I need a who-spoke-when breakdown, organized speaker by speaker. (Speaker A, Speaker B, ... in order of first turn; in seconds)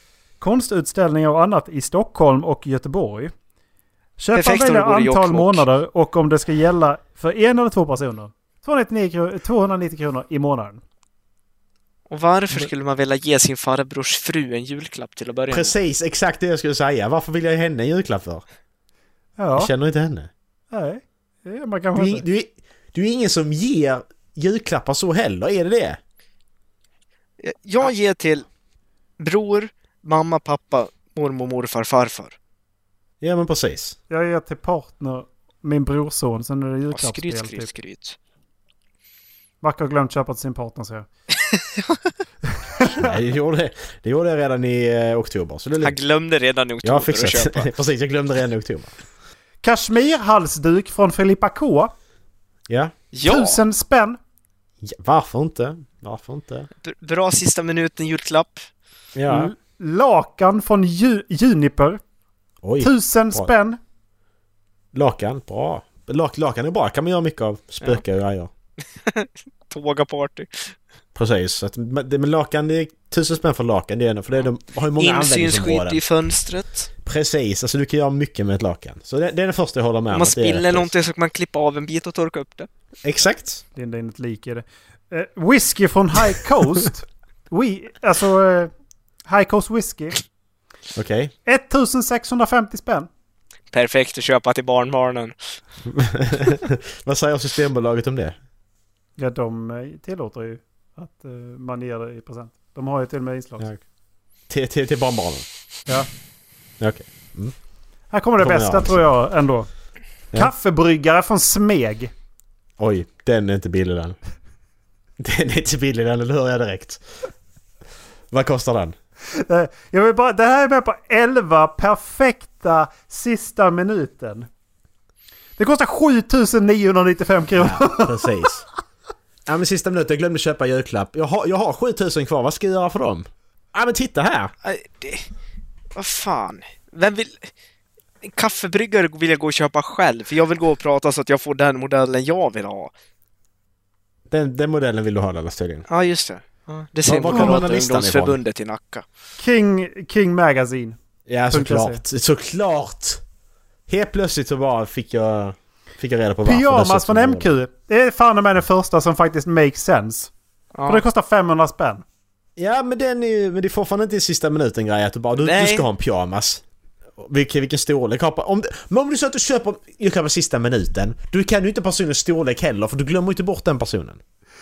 Speaker A: 0.4-3.3, 4.2-10.8, 19.4-19.7, 20.7-22.2, 34.1-37.7, 39.6-41.1, 49.6-51.9, 53.2-54.2, 59.3-62.0, 62.8-63.8, 83.7-88.7, 89.2-90.2, 91.5-93.1, 99.2-103.7, 108.1-109.7, 110.3-112.1, 119.3-124.5, 125.6-128.4, 147.3-147.6, 149.4-151.0, 151.5-152.0, 156.4-160.3, 160.9-162.0
Speaker B: 4.3-5.7, 12.1-15.7, 27.4-28.4, 29.2-32.3, 36.9-38.2, 41.5-42.1, 45.8-47.7, 53.1-53.6, 56.8-58.6, 69.0-70.7, 75.0-76.9, 80.1-82.7, 93.7-95.3, 134.6-135.2, 135.9-137.5, 138.2-142.9, 145.9-149.0, 160.7-161.0, 165.4-165.8
Speaker C: 15.5-18.4, 19.5-20.3, 21.9-26.0, 33.2-34.0, 43.0-46.0, 46.8-48.9, 52.7-52.9, 54.8-56.7, 59.1-59.5, 62.6-63.5, 64.9-68.5, 71.1-76.0, 77.0-80.9, 83.0-83.6, 90.9-91.3, 95.8-98.3, 104.5-105.5, 106.8-107.5, 108.4-109.0, 112.8-114.2, 115.2-117.0, 118.3-119.0, 127.6-128.6, 129.4-134.5, 144.3-145.8, 147.1-148.4, 151.3-153.2, 153.9-157.5, 162.6-166.6, 167.2-174.2